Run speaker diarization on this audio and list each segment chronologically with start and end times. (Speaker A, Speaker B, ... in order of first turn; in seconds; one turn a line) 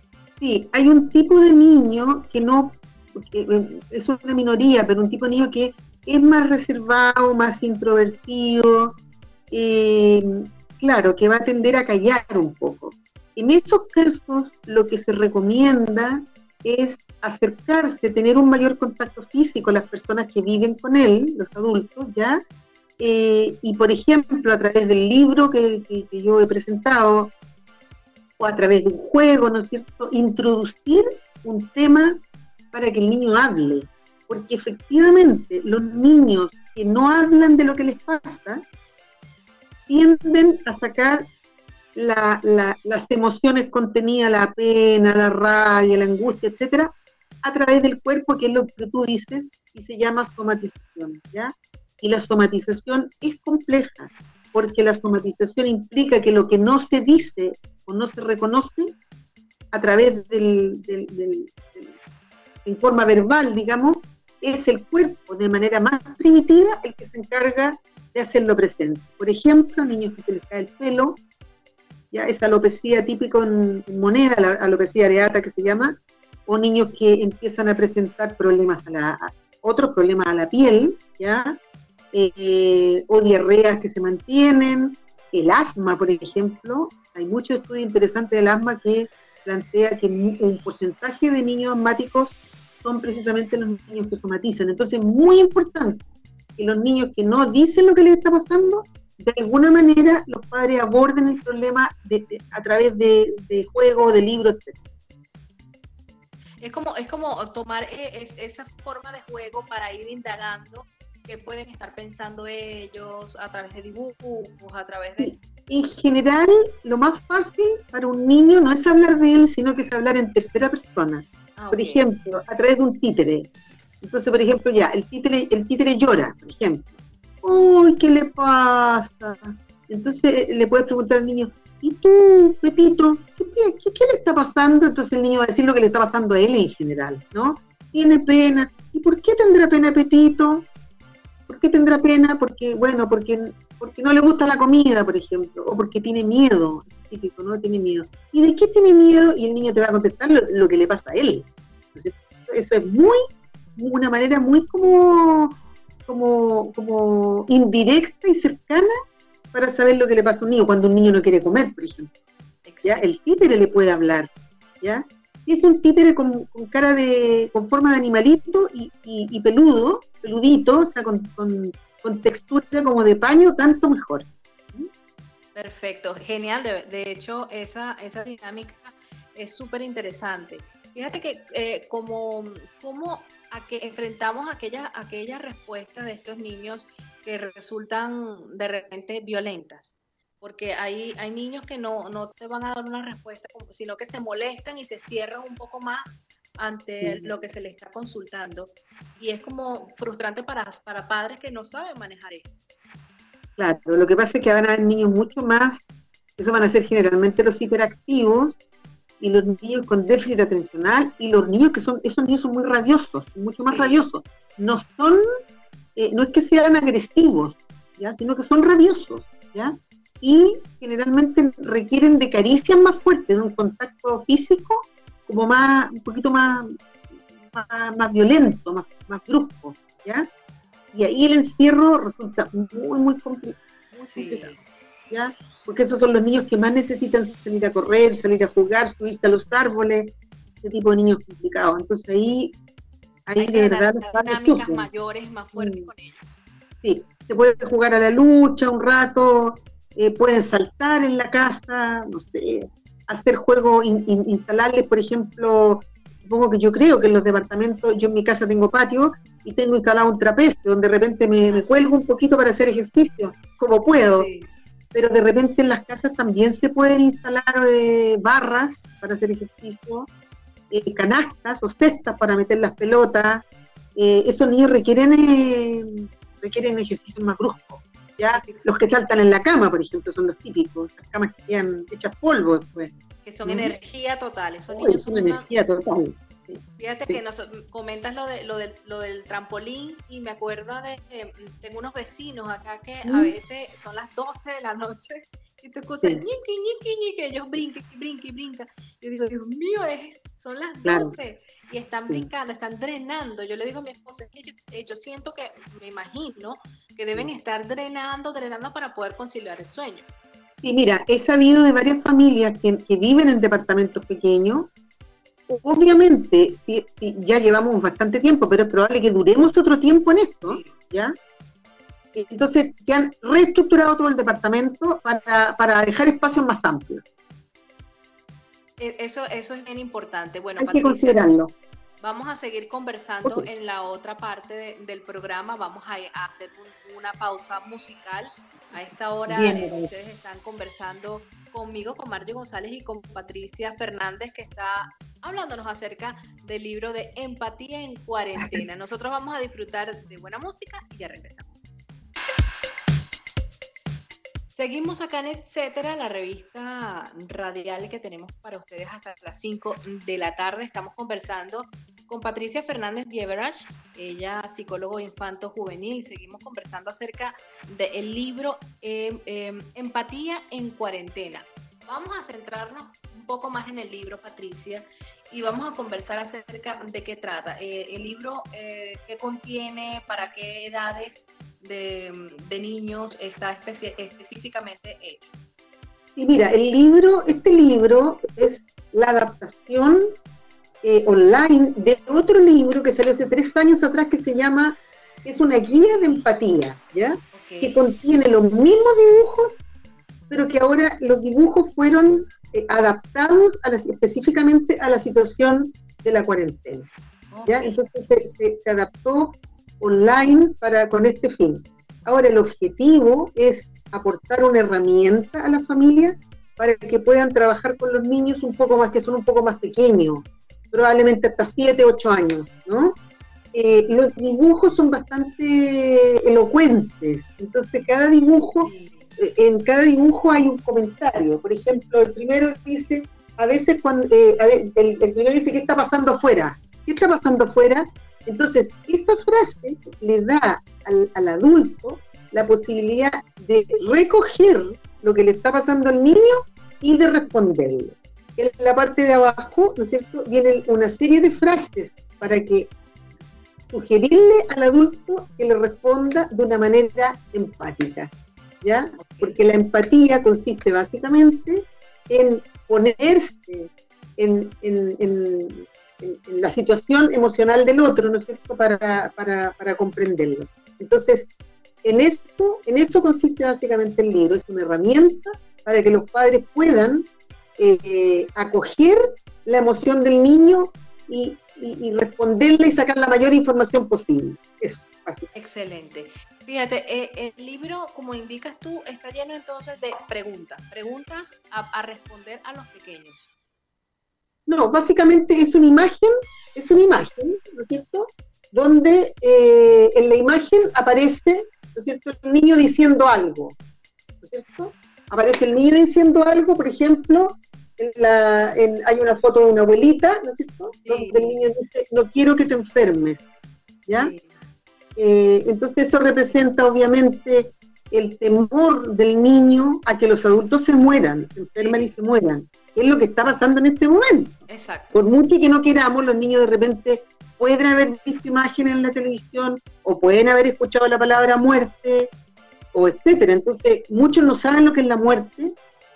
Speaker A: 0.4-9.0
Speaker A: 9.5-22.4
Speaker A: 23.0-27.3
Speaker A: 28.4-32.2
Speaker A: 32.7-38.6
Speaker A: 39.9-41.3
Speaker A: 41.9-58.9
Speaker A: 59.7-62.0
Speaker A: 62.6-71.2
Speaker A: 72.1-81.6
Speaker A: 82.1-96.0
Speaker A: 96.6-104.8
Speaker B: 106.6-115.3
Speaker A: 115.2-123.5
Speaker B: 121.6-122.0
Speaker A: 124.0-140.7
Speaker A: 141.5-153.2
Speaker A: 153.8-158.9
Speaker A: 159.5-162.1
Speaker B: 162.6-163.1
Speaker A: 162.8-174.9
Speaker B: 175.5-202.5
Speaker A: 197.0-197.4
Speaker A: 203.6-205.8
Speaker A: 206.4-208.6
Speaker A: 209.2-215.2
Speaker B: 213.7-214.0
Speaker A: 215.9-226.8
Speaker A: 227.4-230.3
Speaker A: 230.9-234.5
Speaker B: 234.1-234.6
Speaker A: 235.1-242.6
Speaker A: 243.3-244.9
Speaker B: 243.4-246.3
Speaker A: 245.6-245.9
Speaker A: 246.8-264.3
Speaker B: 261.5-261.8
Speaker B: 264.1-264.5
Speaker A: 264.9-270.1
Speaker A: 270.7-273.4
Speaker A: 273.9-282.9
Speaker B: 278.3-278.8
Speaker B: 283.2-285.5
Speaker A: 283.4-283.7
Speaker A: 284.7-287.2
Speaker B: 286.8-310.1
Speaker A: 293.0-293.3
Speaker A: 300.8-301.1
Speaker A: 310.6-314.7
Speaker A: 315.5-321.1
Speaker B: 320.4-320.8
Speaker A: 322.1-327.0
Speaker B: 328.8-331.2
Speaker A: 330.6-331.5
Speaker B: 332.0-351.7
Speaker A: 339.3-339.9
Speaker B: 354.5-385.3
Speaker A: 386.1-390.1
Speaker A: 390.8-399.6
Speaker B: 397.3-397.8
Speaker A: 400.3-406.9
Speaker B: 407.3-407.8
Speaker A: 407.4-422.9
Speaker A: 423.5-452.7
Speaker B: 428.6-429.1
Speaker A: 453.7-458.1
Speaker A: 458.6-471.3
Speaker B: 459.0-459.4
Speaker A: 471.8-477.1
Speaker A: 477.6-485.3
Speaker B: 485.3-493.2
Speaker A: 494.5-503.6
Speaker A: 504.2-513.2
Speaker B: 510.8-511.4
Speaker A: 513.9-514.1
Speaker B: 513.9-514.4
Speaker A: 515.0-532.1
Speaker B: 521.6-521.9
Speaker B: 524.5-525.0
Speaker A: 532.7-535.5